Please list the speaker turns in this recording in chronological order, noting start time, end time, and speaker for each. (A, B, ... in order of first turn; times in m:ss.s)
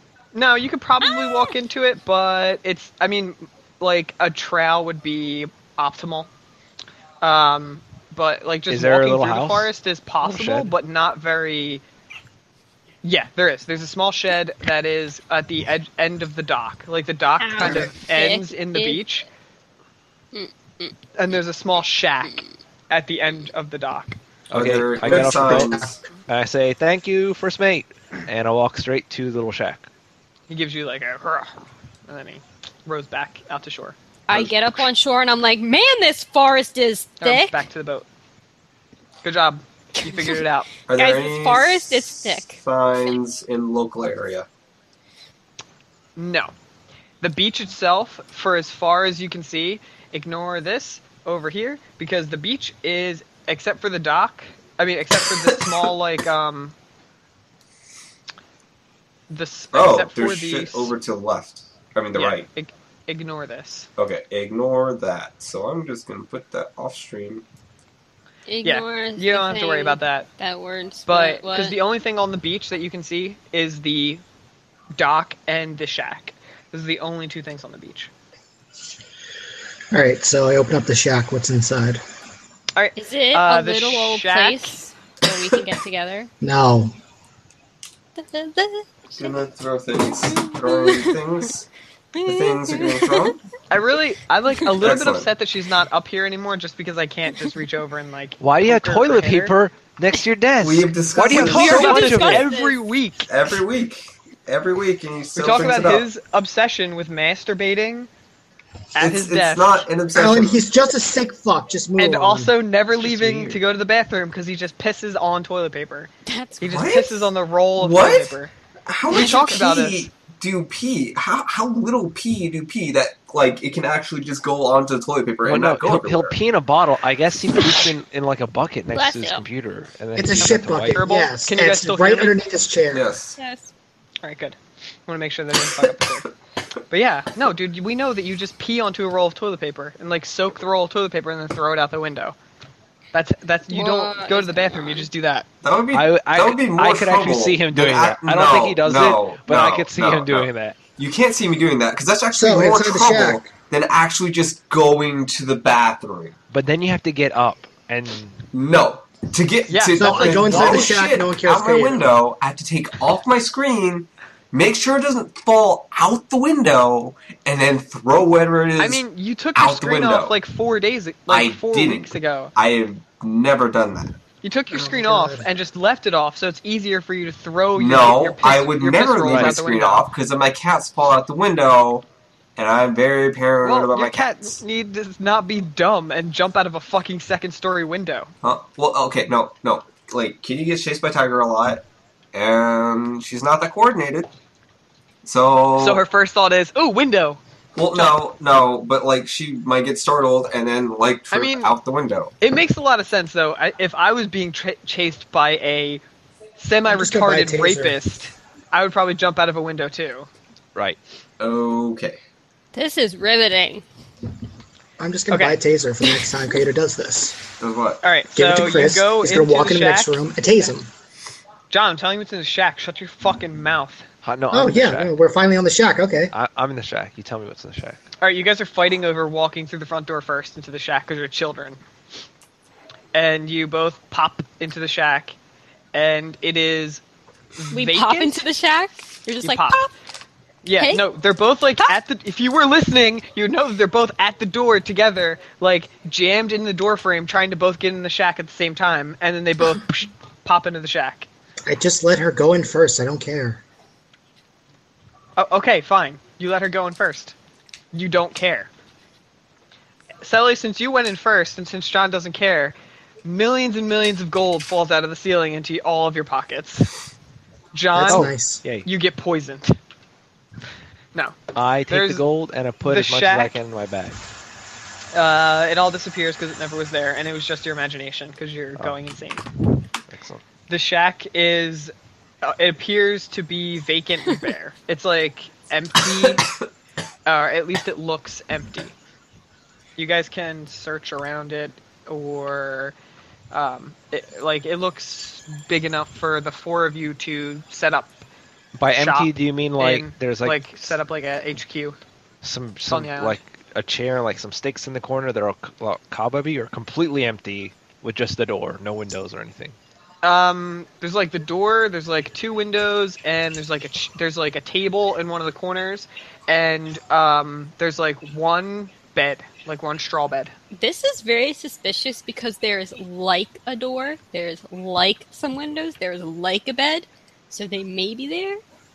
0:00.4-0:06.3 A
0:01.0-0:01.5 B
0:07.2-0:11.8 A
0:08.7-0:10.7 C
0:13.0-0:19.3 A
0:17.4-0:19.0 B
0:20.3-0:21.0 B
0:21.2-0:24.2 A
0:24.5-0:26.0 D
0:24.5-0:29.9 C
0:25.1-0:25.9 E
0:30.5-0:34.0 A
0:34.3-0:37.6 B
0:37.2-0:38.1 A
0:39.2-0:40.7 A
0:40.0-0:43.2 B
0:40.9-0:44.5 D
0:46.2-0:46.5 A
0:47.2-0:56.8 A
0:59.3-1:00.9 A
0:59.7-1:02.5 D
1:02.1-1:03.9 A
1:04.0-1:07.4 D
1:08.5-1:11.8 B
1:08.6-1:10.3 A
1:11.1-1:14.2 A
1:15.0-1:18.1 A
1:19.9-1:22.0 E
1:22.8-1:24.8 A
1:23.0-1:26.3 B
1:26.4-1:26.9 E
1:28.2-1:29.4 B
1:29.2-1:31.7 D
1:30.3-1:31.2 B
1:32.1-1:33.3 B
1:32.2-1:33.4 D
1:33.7-1:39.6 A
1:34.8-1:35.3 D
1:38.4-1:42.5 C
1:40.6-1:42.4 D
1:41.2-1:43.3 A
1:41.5-1:42.8 B
1:43.2-1:46.1 D
1:45.4-1:48.1 A
1:49.0-1:49.9 A
1:49.0-1:50.6 D
1:50.1-1:52.5 E
1:52.0-1:58.5 A
1:52.9-1:53.6 C
1:56.3-1:57.0 B
1:56.7-2:06.4 D
1:59.1-2:00.1 A
1:59.1-1:59.7 B
2:05.4-2:11.0 C
2:08.9-2:09.4 B
2:10.2-2:13.1 E
2:11.0-2:12.4 A
2:12.9-2:13.4 D
2:13.4-2:13.7 B
2:14.2-2:16.3 A
2:16.9-2:22.4 A
2:23.1-2:25.5 A
2:23.7-2:25.1 B
2:25.6-2:36.4 D
2:25.9-2:30.8 C
2:32.3-2:33.5 E
2:36.5-2:38.5 C
2:38.5-2:49.0 D
2:39.7-2:40.9 A
2:40.0-2:42.1 E
2:48.8-2:52.5 A
2:49.6-2:50.4 D
2:51.3-2:54.2 D
2:54.4-3:00.1 A
2:54.7-2:55.5 E
2:57.8-3:02.0 D
2:59.2-2:59.6 C
3:02.6-3:04.6 D
3:03.6-3:08.3 A
3:08.4-3:14.3 D
3:15.2-3:16.0 D
3:15.8-3:17.4 A
3:17.8-3:22.3 D
3:17.9-3:18.2 A
3:21.3-3:21.7 A
3:22.4-3:26.0 A
3:26.6-3:30.3 A
3:26.9-3:28.0 E
3:31.4-3:32.2 D
3:32.7-3:33.8 B
3:35.0-3:37.4 E
3:35.3-3:35.6 A
3:37.6-3:38.0 D
3:38.0-3:40.4 A
3:38.3-3:40.9 E
3:41.7-3:44.0 A
3:44.2-3:45.1 C
3:44.5-3:46.3 E
3:46.3-3:48.0 C
3:48.2-3:51.8 A
3:53.1-3:55.4 A
3:55.9-3:57.0 A
3:57.6-3:58.4 A
3:57.7-3:59.9 B
3:59.4-3:59.8 A
4:00.6-4:11.3 A
4:00.8-4:01.0 B
4:11.6-4:13.6 E
4:15.4-4:17.4 A
4:17.9-4:18.7 A
4:20.2-4:26.9 A
4:27.7-4:28.3 A
4:28.0-4:28.6 E
4:28.1-4:28.9 C
4:28.8-4:29.8 A
4:31.2-4:32.3 A
4:31.5-4:34.2 C
4:32.8-4:33.6 A
4:35.1-4:39.5 A
4:40.1-4:40.4 C
4:40.7-4:46.5 A
4:47.3-4:49.0 A
4:50.0-4:52.9 A
4:53.5-4:58.2 A
4:58.8-5:00.7 C
4:58.9-5:02.0 A
5:02.4-5:09.8 C
5:02.9-5:03.4 A
5:10.2-5:20.5 A
5:20.7-5:28.6 B